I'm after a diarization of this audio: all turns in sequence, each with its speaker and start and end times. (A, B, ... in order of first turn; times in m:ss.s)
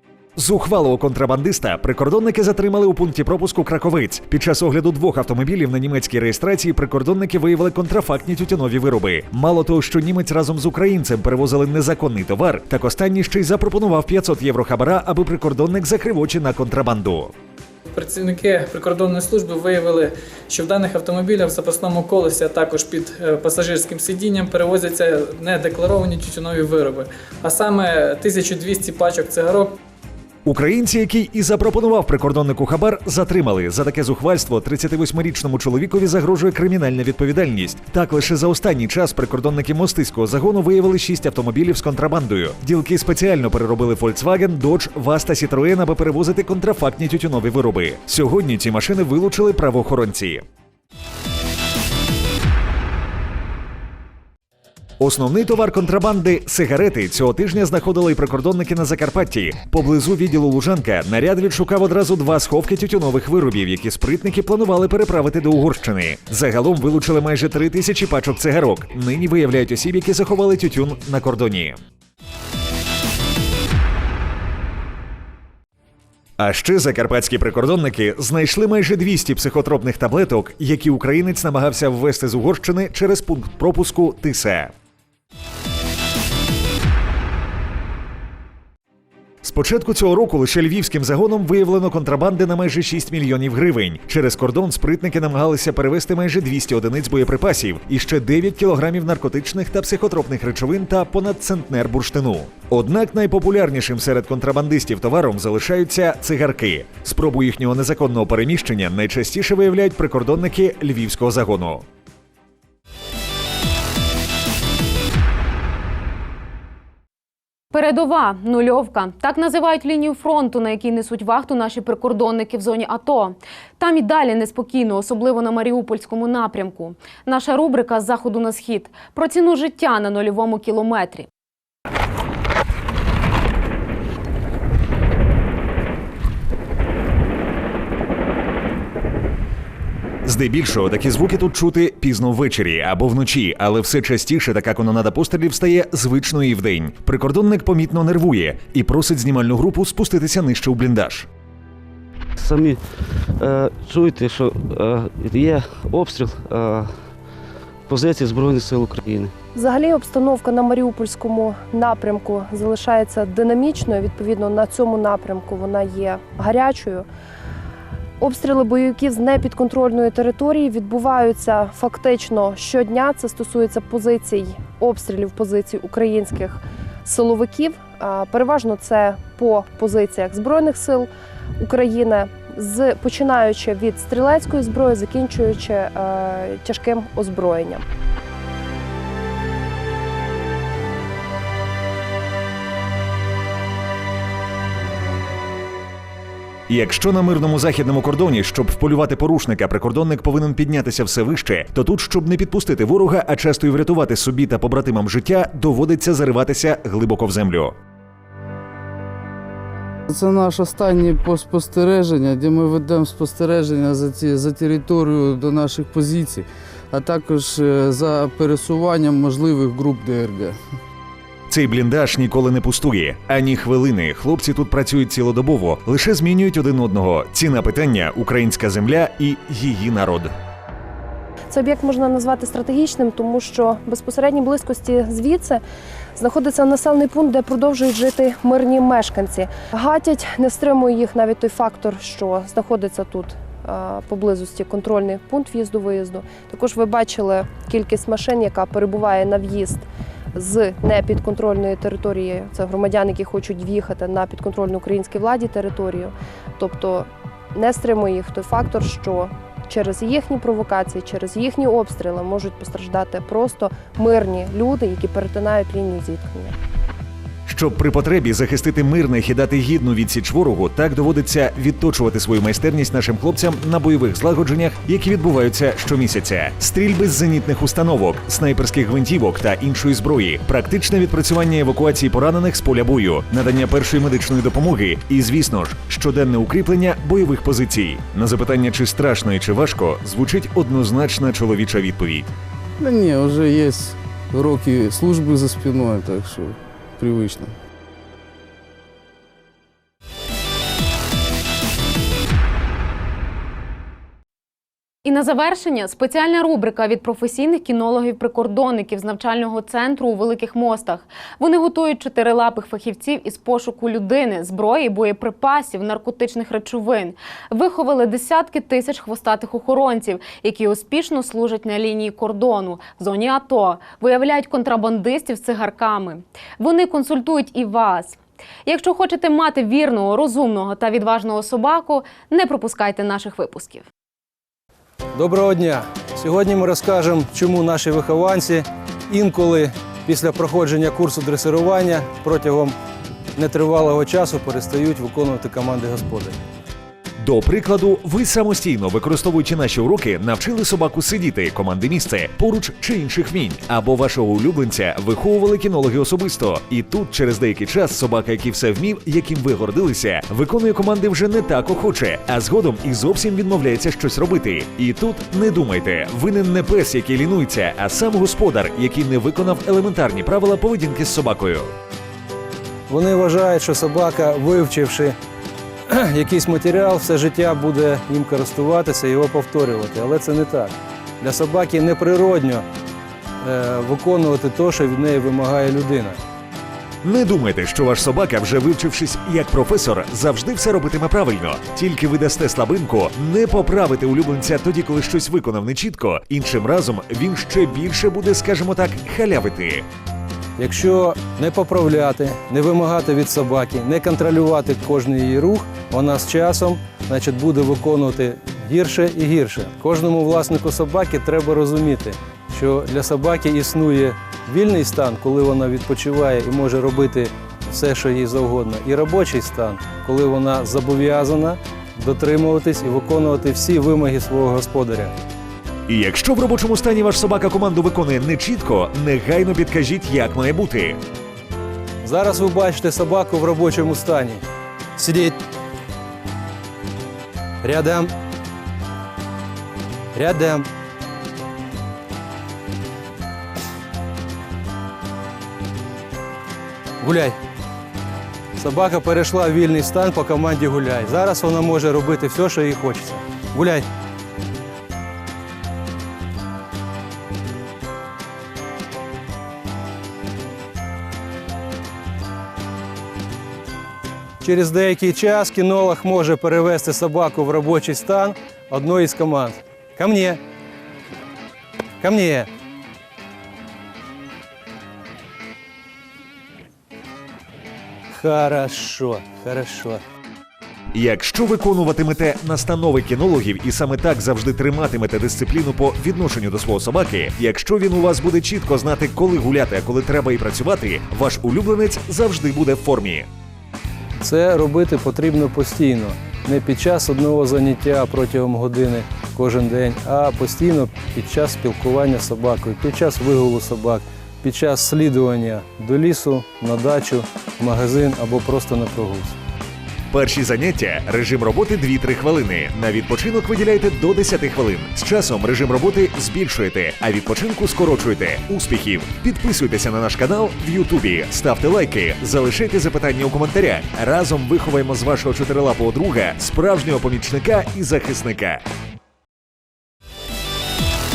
0:00.4-0:17.3 A
0:17.9-0:29.7 B
0:30.4-0:50.4 A
0:55.0-1:11.8 A
1:16.4-1:24.7 A
1:29.4-1:51.8 A
1:57.7-2:11.3 C
2:20.2-2:31.3 A
2:32.4-2:36.9 D
2:37.9-2:39.3 D
2:39.5-2:47.0 E
2:48.2-3:01.1 E
3:01.6-3:07.8 E
3:16.7-3:27.7 A
3:30.1-3:40.6 F
3:41.5-3:50.3 A
3:51.5-3:55.6 E
3:56.2-4:26.5 E
4:27.4-4:52.3 A
4:52.8-4:57.5 F
5:05.0-5:33.8 C
5:35.1-5:42.8 G
5:43.3-5:46.4 G
5:47.2-6:11.7 A
6:12.9-6:15.2 G
6:15.9-6:22.6 G
6:23.4-6:26.2 G
6:27.0-6:39.8 A
6:40.6-7:05.1 G
7:05.9-7:11.0 A
7:12.0-7:14.4 G
7:15.0-7:15.4 G
7:17.6-7:18.1 G
7:20.1-7:20.7 G
7:27.0-7:27.4 G
7:28.6-7:33.9 G
7:44.4-7:50.4 G
7:52.0-7:52.5 G
7:58.1-8:00.0 G
8:00.9-8:13.3 A
8:14.2-8:29.4 G
8:30.1-8:48.6 A